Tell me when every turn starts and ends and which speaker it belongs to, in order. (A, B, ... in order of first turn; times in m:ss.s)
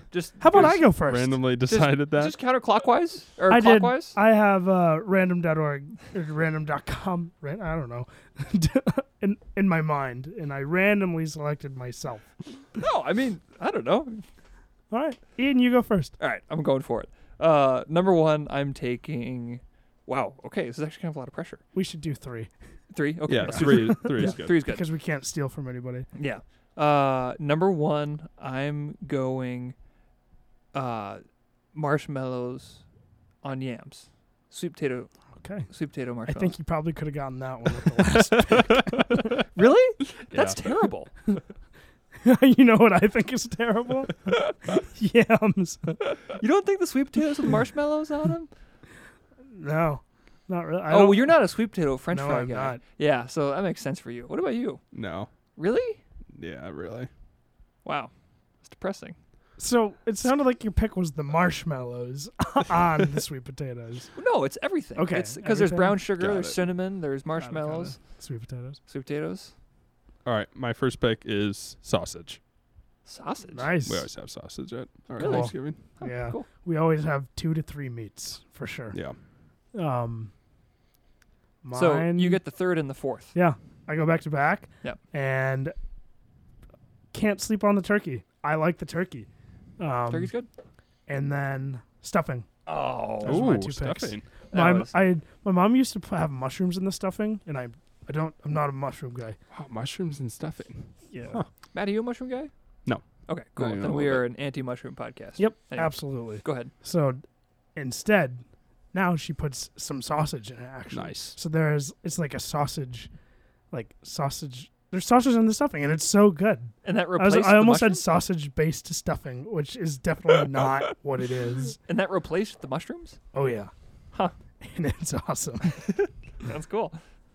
0:00.1-0:00.8 A
0:00.4-0:01.4 B
0:00.5-0:02.4 C
0:01.7-0:04.2 A
0:03.5-0:12.3 B
0:12.8-0:14.2 A
0:14.9-0:16.2 B
0:16.2-0:21.6 A
0:21.7-0:22.5 B
0:22.9-0:24.8 A
0:23.3-0:24.6 C
0:23.5-0:26.1 B
0:26.2-0:29.8 A
0:30.7-0:32.8 A
0:33.4-0:35.1 A
0:35.4-0:35.7 B
0:35.7-0:36.5 A
0:36.2-0:39.3 B
0:39.5-0:41.1 A
0:40.3-0:40.6 C
0:42.2-0:46.2 B
0:46.4-0:48.5 A
0:49.5-0:51.4 B
0:50.9-0:54.8 A
0:52.1-0:52.8 B
0:54.9-0:55.3 C
0:55.6-0:56.0 A
0:56.3-0:57.1 C
0:57.8-0:59.2 A
0:59.6-1:04.1 B
1:04.2-1:08.0 A
1:05.0-1:06.0 B
1:06.2-1:06.6 C
1:07.4-1:08.8 B
1:08.9-1:09.5 A
1:10.2-1:12.4 C
1:13.1-1:13.7 A
1:13.6-1:14.1 B
1:13.8-1:15.8 C
1:15.2-1:16.4 A
1:15.2-1:19.0 B
1:19.7-1:20.3 B
1:21.6-1:22.4 B
1:21.7-1:23.3 A
1:23.3-1:25.8 B
1:27.1-1:29.3 B
1:29.8-1:30.3 B
1:30.1-1:30.5 A
1:31.1-1:32.5 B
1:32.7-1:33.5 A
1:33.2-1:39.4 B
1:33.3-1:34.2 C
1:34.5-1:34.9 A
1:39.5-1:41.5 C
1:41.1-1:41.4 B
1:41.7-1:42.5 A
1:43.3-1:46.7 A
1:43.6-1:44.2 C
1:45.4-1:47.2 B
1:47.8-1:53.1 B
1:50.9-1:51.4 C
1:53.7-2:01.8 B
1:56.8-1:58.0 A
2:01.8-2:03.2 A
2:03.3-2:03.7 B
2:04.6-2:05.8 B
2:05.7-2:07.0 A